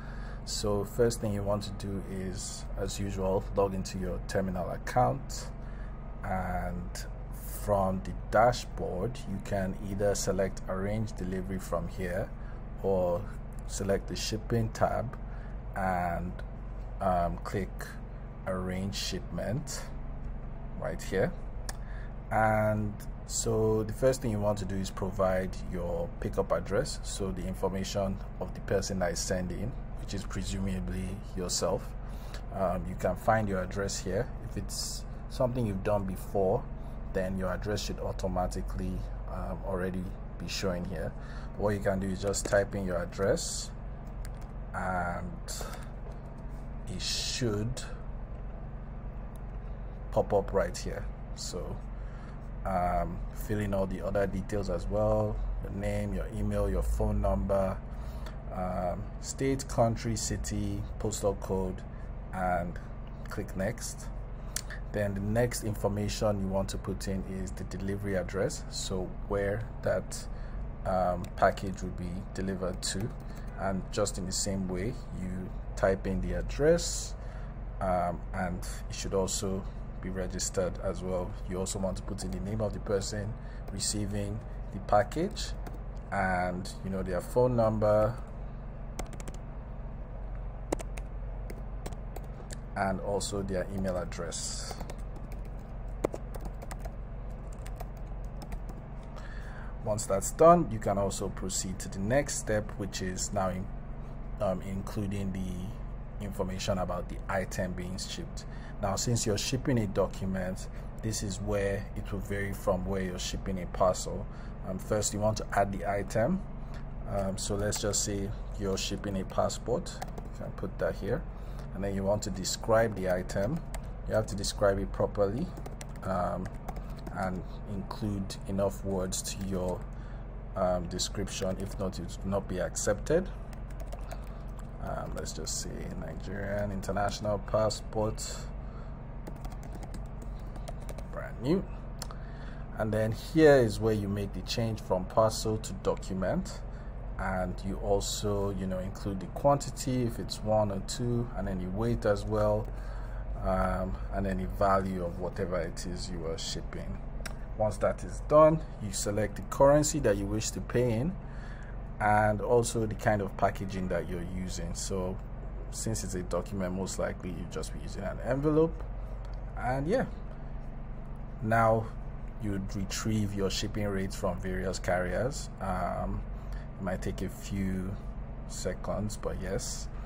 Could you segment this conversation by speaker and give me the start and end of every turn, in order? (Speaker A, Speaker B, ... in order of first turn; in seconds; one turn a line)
Speaker A: 0.4-5.5
Speaker A: 6.2-15.2
Speaker A: 15.7-16.4
Speaker A: 17.0-17.9
Speaker A: 18.4-19.9
Speaker A: 20.8-21.3
Speaker A: 22.3-31.9
Speaker A: 32.5-43.7
Speaker A: 44.7-45.7
Speaker A: 46.9-47.8
Speaker A: 50.1-51.8
Speaker A: 52.6-57.8
Speaker A: 58.5-64.1
Speaker A: 64.9-70.3
Speaker A: 70.8-77.2
Speaker A: 77.8-85.5
Speaker A: 86.1-88.2
Speaker A: 92.7-94.8
Speaker A: 99.8-103.7
Speaker A: 104.4-116.5
Speaker A: 117.0-125.5
Speaker A: 126.0-126.5
Speaker A: 127.1-129.8
Speaker A: 130.5-133.3
Speaker A: 134.8-138.5
Speaker A: 141.1-141.7
Speaker A: 142.7-146.6
Speaker A: 147.2-152.7
Speaker A: 153.3-157.0
Speaker A: 157.6-161.2
Speaker A: 162.0-168.9
Speaker A: 169.6-170.1
Speaker A: 171.4-176.2
Speaker A: 176.8-178.0
Speaker A: 178.5-179.9